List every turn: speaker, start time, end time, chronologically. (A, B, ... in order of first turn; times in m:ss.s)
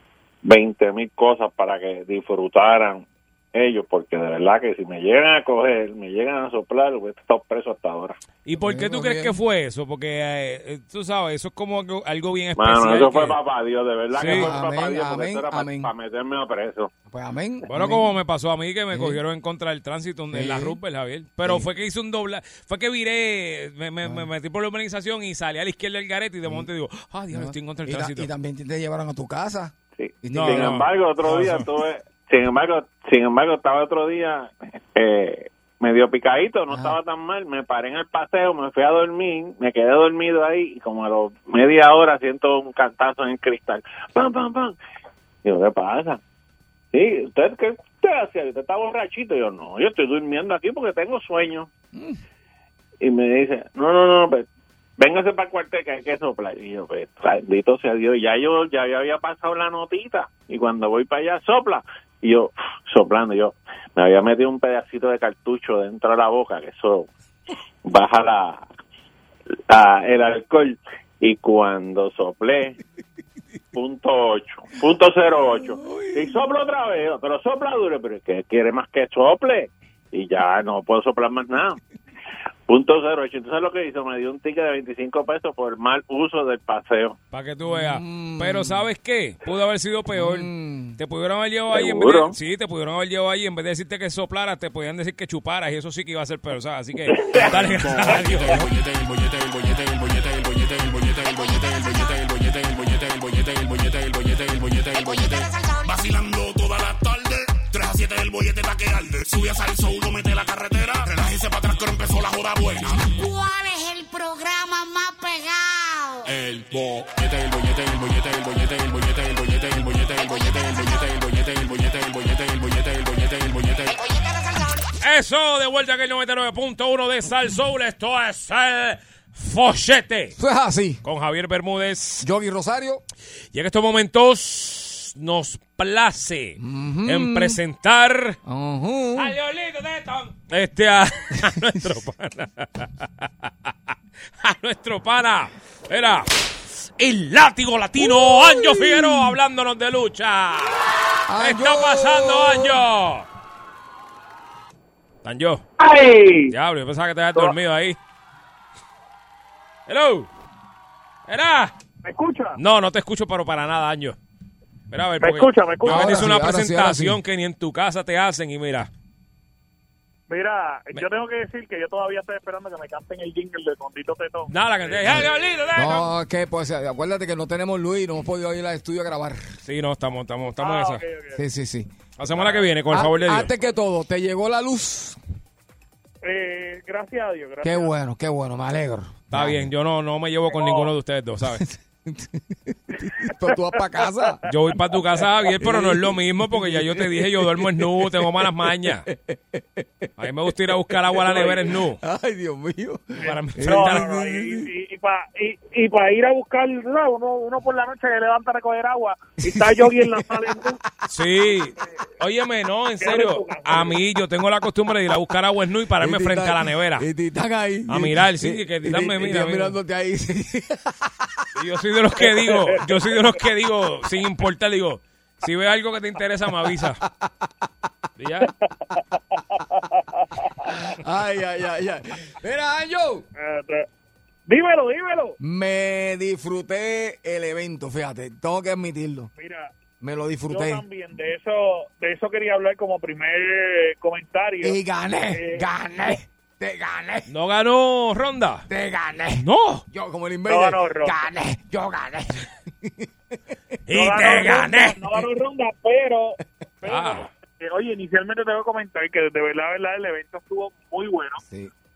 0:00.4-0:08.2 A
0:08.4-0:13.4 B
0:08.6-0:09.4 C
0:12.6-0:16.9 A
0:14.1-0:14.5 B
0:14.2-0:15.9 C
0:17.1-0:18.1 C
0:17.7-0:28.3 B
0:18.9-0:19.2 C
0:20.3-0:20.8 C
0:27.3-0:30.9 C
0:30.0-0:44.8 A
0:30.3-0:31.7 B
0:36.7-0:37.0 C
0:45.4-0:46.2 A
0:46.9-0:51.7 A
0:51.9-0:52.2 C
0:53.0-0:54.5 A
0:55.0-1:07.1 A
1:07.8-1:08.7 A
1:09.7-1:12.8 A
1:13.7-1:21.8 A
1:15.5-1:16.4 C
1:22.7-1:27.2 A
1:27.3-1:38.6 B
1:27.6-1:28.9 C
1:30.1-1:31.0 C
1:31.7-1:32.4 A
1:37.5-1:53.3 D
1:45.0-1:46.1 E
1:53.0-1:56.3 E
1:56.2-2:04.0 D
2:03.9-2:04.8 E
2:05.0-2:10.4 B
2:10.4-2:11.0 C
2:11.0-2:12.3 B
2:12.2-2:13.0 C
2:13.5-2:18.4 B
2:16.6-2:17.6 C
2:18.4-2:19.3 C
2:19.2-2:23.7 B
2:24.4-2:26.3 B
2:27.0-2:30.8 B
2:28.0-2:29.3 C
2:31.3-2:32.8 C
2:31.4-2:33.3 B
2:35.2-2:35.6 B
2:36.5-2:38.0 B
2:39.9-2:40.3 B
2:41.3-2:41.7 B
2:42.0-2:42.6 F
2:42.6-2:44.2 B
2:44.9-2:48.9 B
2:45.2-2:46.3 F
2:45.8-2:47.2 C
2:50.3-2:54.5 F
2:54.5-2:56.1 B
2:55.0-2:59.5 C
2:59.6-3:01.0 B
3:00.6-3:01.4 F
3:01.4-3:05.2 C
3:02.2-3:03.6 B
3:06.2-3:07.9 F
3:07.6-3:09.7 C
3:09.3-3:11.6 B
3:10.5-3:10.9 F
3:11.4-3:14.4 C
3:14.5-3:19.1 B
3:15.6-3:24.7 C
3:20.2-3:22.0 B
3:23.2-3:30.8 F
3:23.2-3:24.2 B
3:29.4-3:30.8 C
3:31.1-3:37.1 B
3:33.0-3:34.0 F
3:36.0-3:41.4 C
3:37.9-3:39.8 B
3:41.6-3:47.0 B
3:42.2-3:43.2 F
3:47.1-3:47.5 C
3:48.2-3:48.5 B
3:50.9-3:53.2 C
3:53.4-3:53.9 F
3:54.5-3:55.4 F
3:55.4-3:59.3 C
3:59.4-3:59.7 F
4:00.0-4:00.8 C
4:00.5-4:04.8 F
4:04.6-4:07.3 C
4:05.3-4:05.7 F
4:07.3-4:08.7 B
4:08.7-4:13.1 C
4:09.4-4:09.8 B
4:10.5-4:11.3 F
4:13.9-4:15.2 B
4:13.9-4:21.4 F
4:16.8-4:17.2 B
4:21.4-4:21.7 C